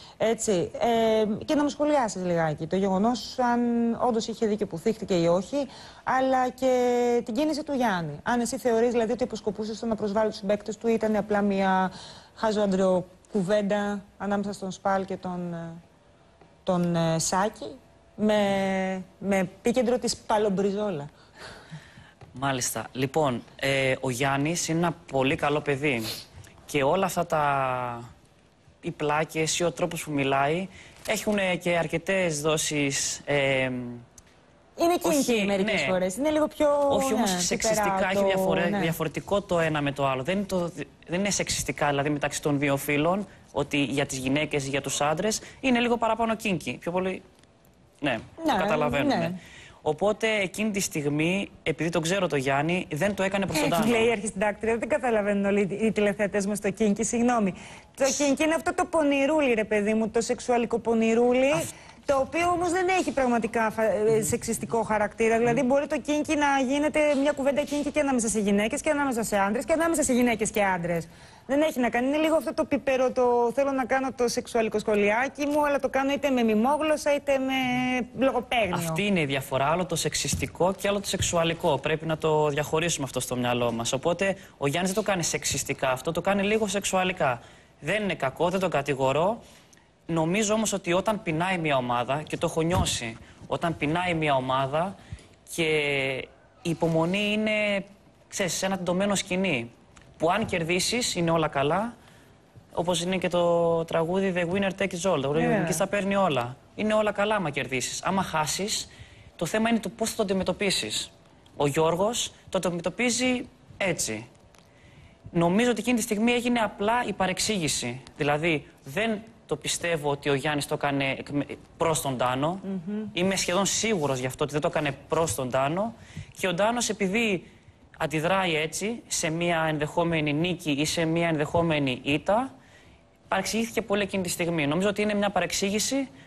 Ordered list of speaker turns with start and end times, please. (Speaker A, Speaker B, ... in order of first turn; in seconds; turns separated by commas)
Speaker A: 0.2-15.8, Speaker A: 16.6-21.1, Speaker B: 22.3-26.1, Speaker B: 26.7-28.0, Speaker B: 28.8-34.0, Speaker A: 34.8-39.0, Speaker B: 35.0-36.0, Speaker B: 36.9-47.2, Speaker B: 48.0-54.1, Speaker A: 48.4-49.4, Speaker A: 53.5-79.0, Speaker B: 78.7-89.4, Speaker B: 90.1-94.9, Speaker B: 95.5-101.9, Speaker B: 102.7-114.3, Speaker A: 105.3-105.8, Speaker B: 115.3-132.5, Speaker B: 133.3-136.1